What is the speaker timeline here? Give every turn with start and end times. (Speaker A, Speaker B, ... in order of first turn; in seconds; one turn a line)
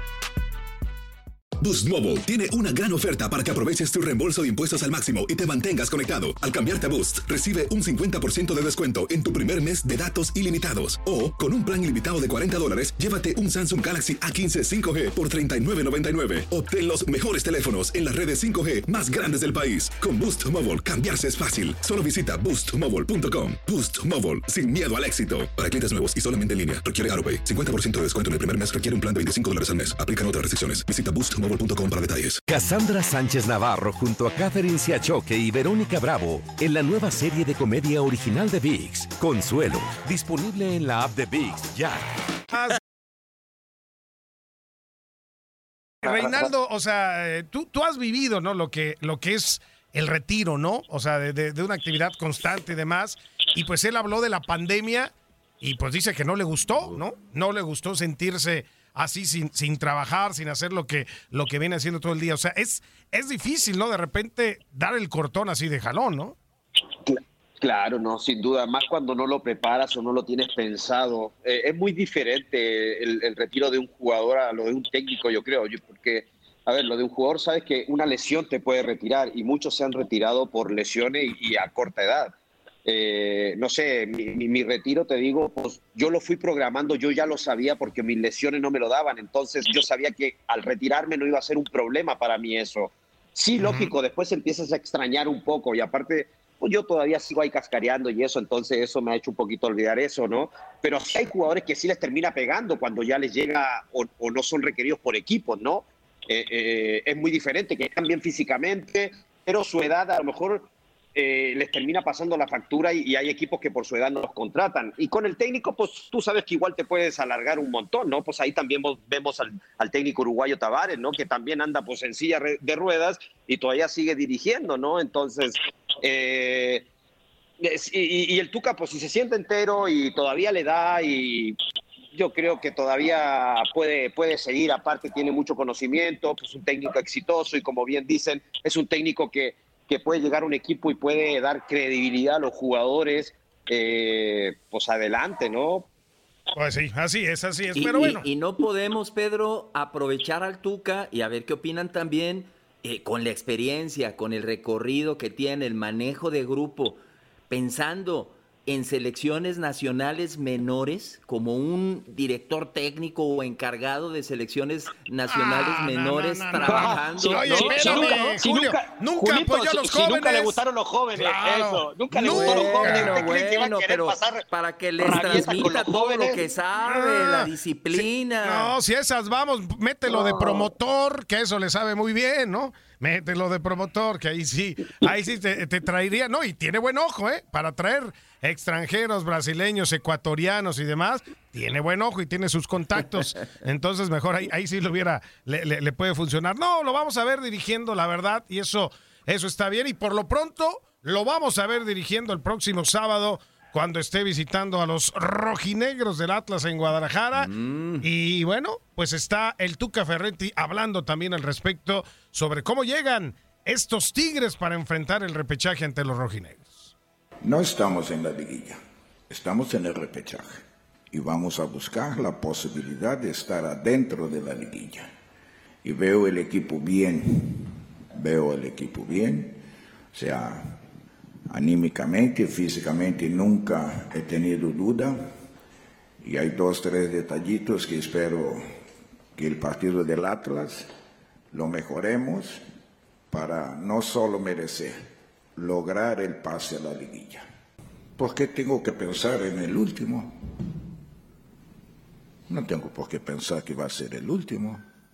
Speaker A: 1.6-32.4
Speaker B: 32.5-42.1
Speaker C: 42.5-42.8
Speaker C: 46.0-66.3
Speaker D: 67.1-82.3
Speaker D: 82.9-126.9
Speaker C: 93.6-93.9
Speaker D: 127.6-131.6
Speaker D: 132.1-145.9
Speaker C: 146.5-148.2
Speaker E: 147.7-168.3
Speaker C: 165.3-170.6
Speaker D: 166.6-174.4
Speaker C: 171.2-173.4
Speaker E: 172.2-178.7
Speaker D: 175.0-176.4
Speaker C: 176.8-216.9
Speaker D: 180.1-180.7
Speaker E: 207.4-208.1
Speaker F: 217.4-218.8
Speaker F: 219.3-220.6
Speaker F: 221.1-225.1
Speaker F: 225.8-229.6
Speaker F: 230.1-230.7
Speaker F: 231.5-235.3
Speaker F: 236.2-238.6
Speaker F: 239.4-240.9
Speaker F: 241.5-242.6
Speaker F: 243.3-245.0
Speaker F: 245.6-247.5
Speaker F: 248.2-250.3
Speaker F: 252.5-254.8